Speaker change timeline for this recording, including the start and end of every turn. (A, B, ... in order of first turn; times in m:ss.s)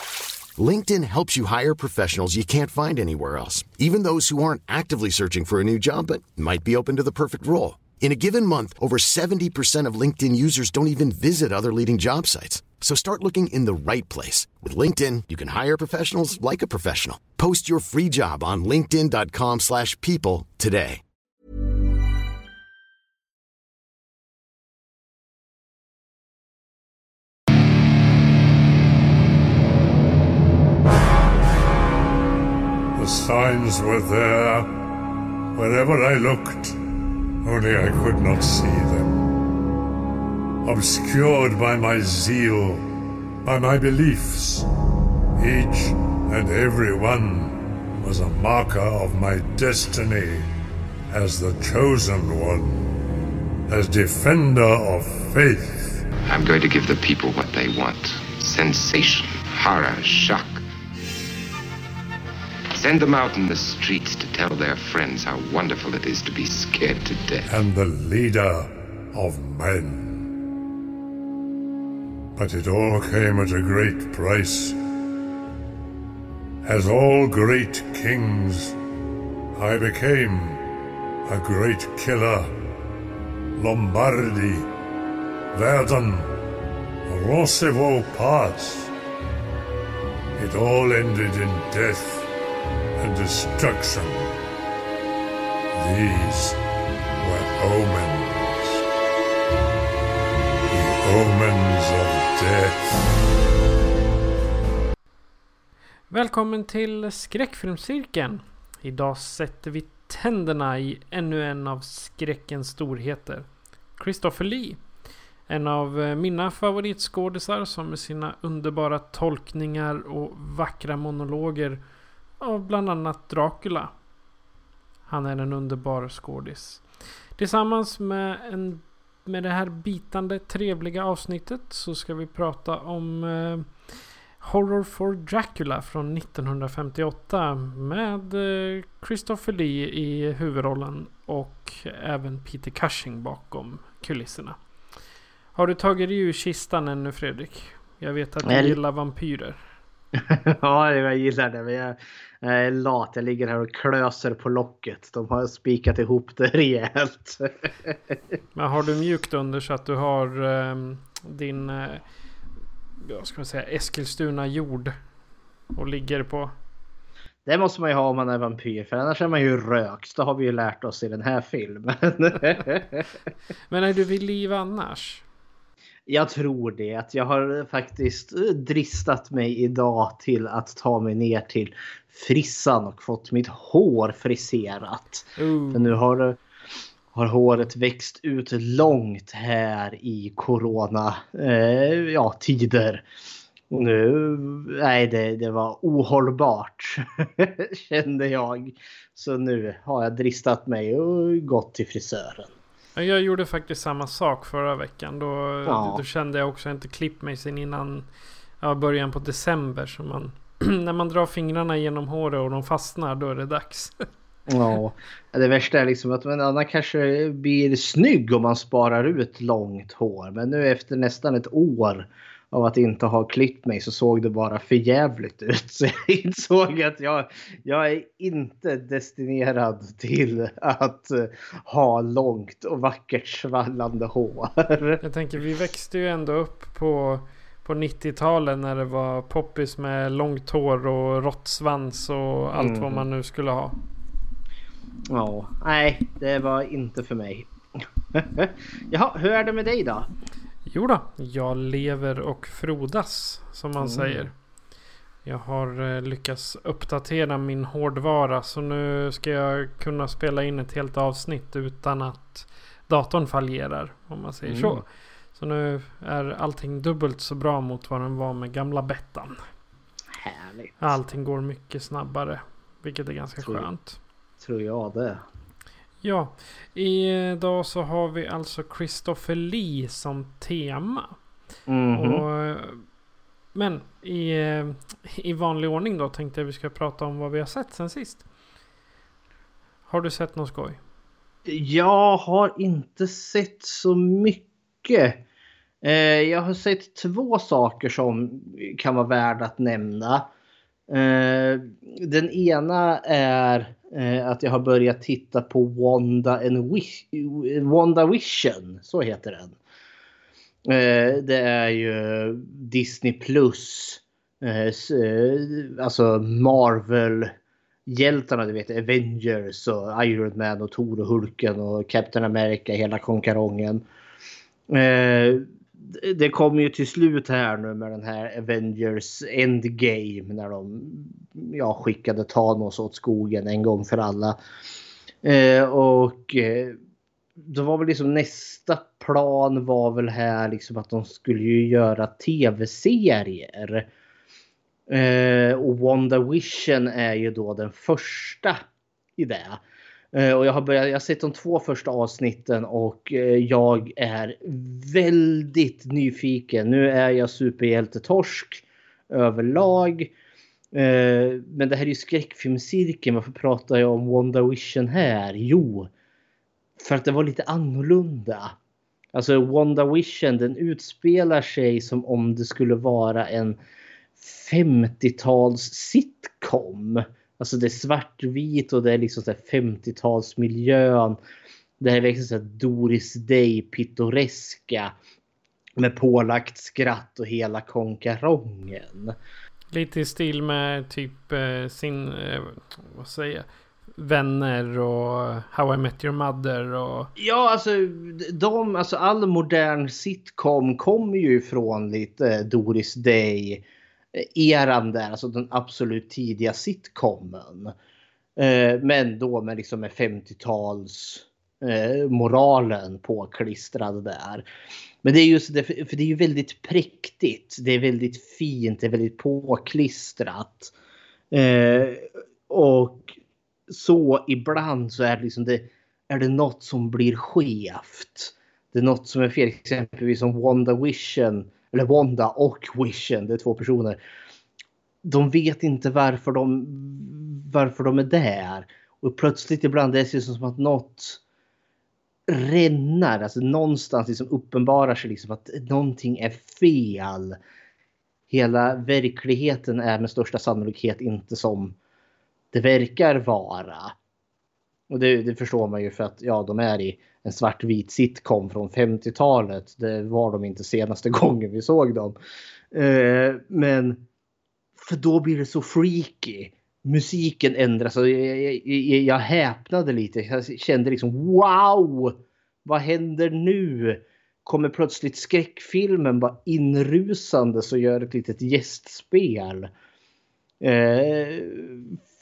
0:00.6-0:21.0 A
0:32.9-0:34.9 B
0:35.5-0:39.3 B
0:40.6-0:42.8 B
0:43.4-0:44.7 B
0:45.4-0:50.5 B
0:51.1-0:52.9 B
0:53.7-0:56.1 B
0:56.3-1:00.6 C
1:02.7-1:07.5 C
1:07.4-1:10.4 B
1:12.4-1:14.8 B
1:16.6-1:18.8 B
1:19.5-1:20.6 B
1:21.2-1:22.6 B
1:23.6-1:24.7 B
1:25.5-1:26.3 B
1:27.0-1:28.9 B
1:30.4-1:32.3 B
1:33.0-1:34.3 B
1:35.7-1:36.6 B
1:37.2-1:38.8 B
1:40.7-1:43.0 B
1:46.1-1:54.8 D
1:55.5-2:01.8 D
2:02.4-2:03.9 D
2:05.1-2:24.6 D
2:25.5-2:29.6 D
2:28.4-2:28.8 E
2:30.1-2:38.4 E
2:38.5-2:42.0 D
2:43.0-2:45.0 D
2:45.7-2:46.5 D
2:47.4-2:53.1 E
2:53.7-2:55.2 D
2:56.1-3:06.4 E
3:05.4-3:06.0 D
3:07.1-3:13.0 E
3:13.7-3:22.6 E
3:22.9-3:28.1 D
3:25.6-3:26.0 E
3:28.6-3:34.0 D
3:34.5-3:55.0 E
3:55.0-4:03.8 D
4:02.6-4:03.0 E
4:05.1-4:07.5 E
4:08.1-4:10.1 E
4:10.6-4:14.3 D
4:13.8-4:14.2 E
4:15.2-4:29.4 D
4:24.4-4:24.8 E
4:30.1-4:31.0 E
4:30.8-4:34.0 D
4:33.4-4:33.7 E
4:34.4-4:35.2 E
4:36.0-4:41.2 D
4:41.7-4:42.2 E
4:41.9-4:42.8 D
4:43.5-4:48.2 D
4:49.9-4:50.8 D
4:51.4-4:55.2 E
4:55.8-5:00.3 E
5:00.9-5:09.6 E
5:10.6-5:17.3 E
5:17.8-5:23.8 E
5:24.7-5:34.4 E
5:35.2-5:36.8 E
5:37.4-5:43.9 E
5:44.9-5:48.6 E
5:49.2-5:49.6 E
5:50.1-6:00.1 E
6:00.7-6:05.9 E
6:06.8-6:08.5 E
6:09.1-6:13.6 E
6:14.2-6:21.2 E
6:21.8-6:24.9 E
6:25.8-6:29.2 E
6:29.7-6:37.1 D
6:37.2-6:47.7 E
6:48.4-6:54.4 E
6:55.0-7:00.7 E
7:01.3-7:14.0 E
7:15.0-7:21.2 E
7:22.3-7:27.4 E
7:28.3-7:31.8 E
7:32.5-7:33.9 E
7:34.9-7:42.2 E
7:42.7-7:44.0 E
7:44.8-7:59.7 E
8:00.6-8:02.0 E